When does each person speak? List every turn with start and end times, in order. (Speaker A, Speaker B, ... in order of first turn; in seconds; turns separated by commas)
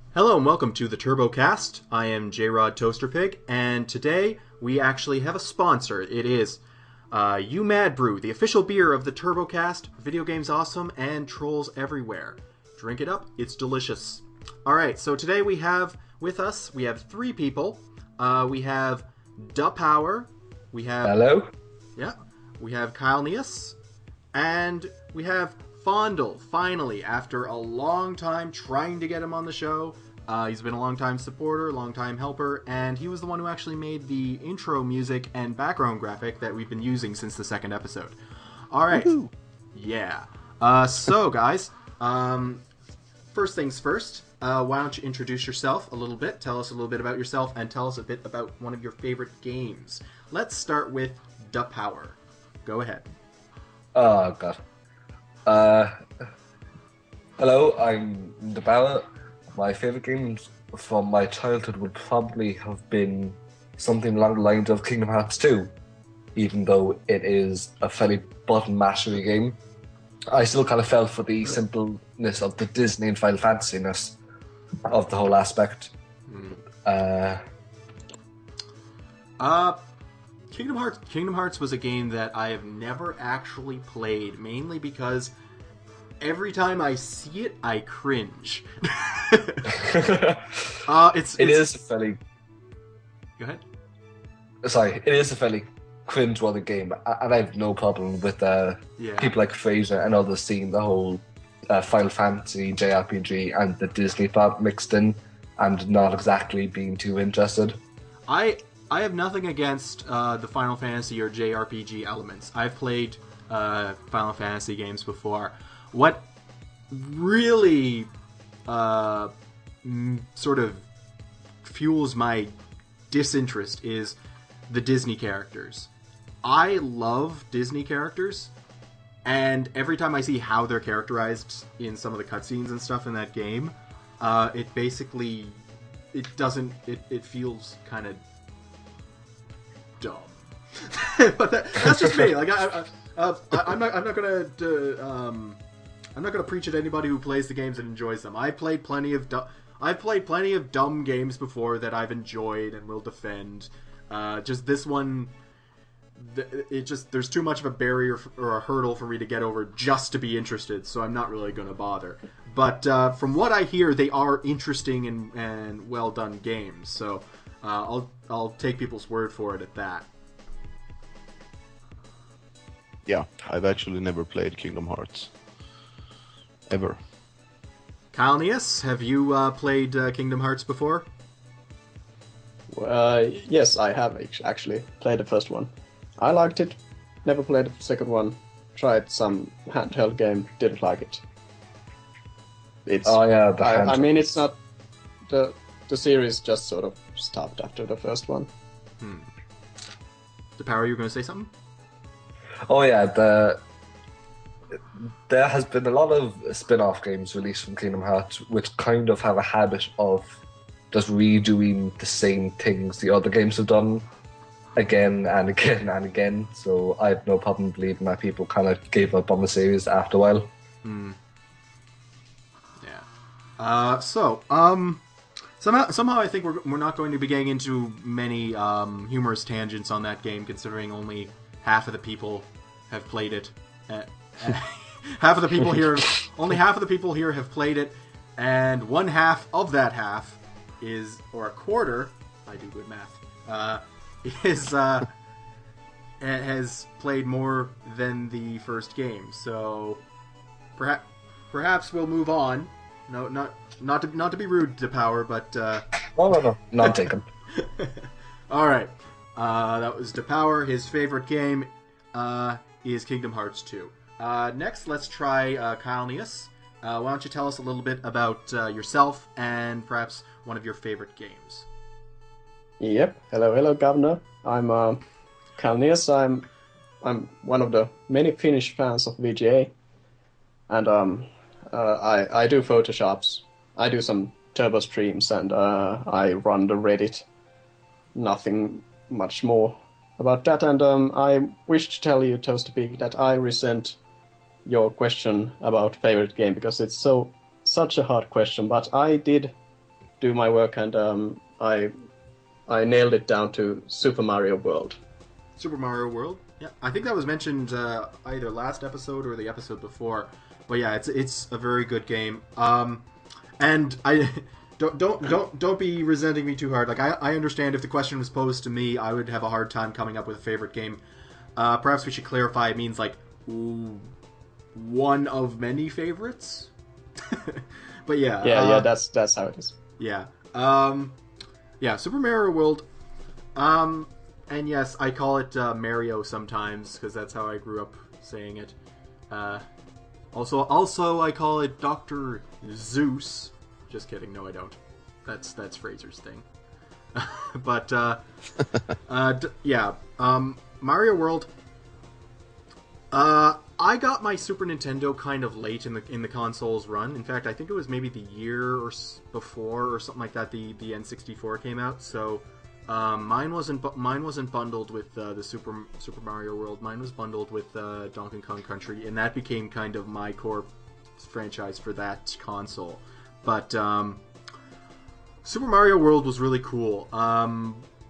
Speaker A: 0.1-6.6, Speaker A: 7.1-21.1, Speaker B: 21.0-21.5, Speaker A: 21.9-23.8, Speaker A: 24.3-38.2, Speaker A: 38.7-39.1, Speaker C: 38.9-39.3, Speaker A: 39.7-42.6, Speaker A: 43.3-53.0, Speaker B: 53.9-54.6, Speaker B: 55.5-56.0, Speaker B: 57.4-65.7, Speaker B: 66.3-69.6, Speaker B: 70.3-74.2, Speaker B: 74.8-75.9, Speaker A: 76.3-76.6, Speaker B: 76.8-77.4, Speaker A: 79.4-79.8, Speaker A: 80.5-85.3, Speaker A: 86.2-89.7, Speaker B: 89.7-90.8, Speaker A: 90.8-91.7, Speaker B: 91.4-92.2, Speaker B: 94.6-107.8, Speaker A: 99.0-99.3, Speaker A: 108.3-116.2, Speaker A: 116.9-118.1, Speaker A: 118.7-119.3, Speaker A: 119.8-120.9, Speaker A: 121.6-122.5, Speaker A: 123.1-124.2, Speaker A: 124.7-125.9, Speaker A: 126.4-128.5, Speaker A: 129.2-135.6, Speaker A: 136.1-138.2, Speaker A: 140.0-145.6, Speaker A: 146.2-155.3, Speaker A: 156.2-170.1, Speaker C: 173.1-175.3, Speaker C: 176.7-177.0, Speaker A: 178.1-181.1, Speaker D: 182.7-191.2, Speaker D: 192.8-194.6, Speaker B: 193.0-194.1, Speaker D: 195.3-198.5, Speaker A: 199.0-199.3, Speaker A: 200.6-201.5, Speaker B: 202.7-203.6, Speaker B: 205.3-210.4, Speaker B: 210.9-214.1, Speaker B: 214.8-220.5, Speaker A: 220.8-221.2, Speaker A: 223.6-225.0, Speaker A: 225.6-245.1, Speaker A: 246.2-250.0, Speaker A: 250.8-255.9, Speaker B: 256.1-257.3, Speaker A: 257.6-271.7, Speaker D: 272.8-275.0, Speaker D: 275.6-276.5, Speaker D: 277.0-279.7, Speaker D: 280.7-287.2, Speaker D: 288.1-294.0, Speaker D: 294.6-299.5, Speaker D: 300.2-301.9, Speaker D: 302.7-305.0, Speaker A: 305.6-313.1, Speaker A: 313.6-321.0, Speaker A: 321.6-324.1, Speaker A: 324.7-326.7, Speaker A: 327.3-328.9, Speaker D: 328.4-329.8, Speaker A: 330.0-331.2, Speaker A: 331.8-332.9, Speaker A: 333.5-338.7, Speaker A: 339.3-339.6, Speaker A: 340.3-346.4, Speaker A: 347.1-348.2, Speaker A: 349.1-351.5, Speaker A: 353.1-374.2, Speaker A: 375.4-377.9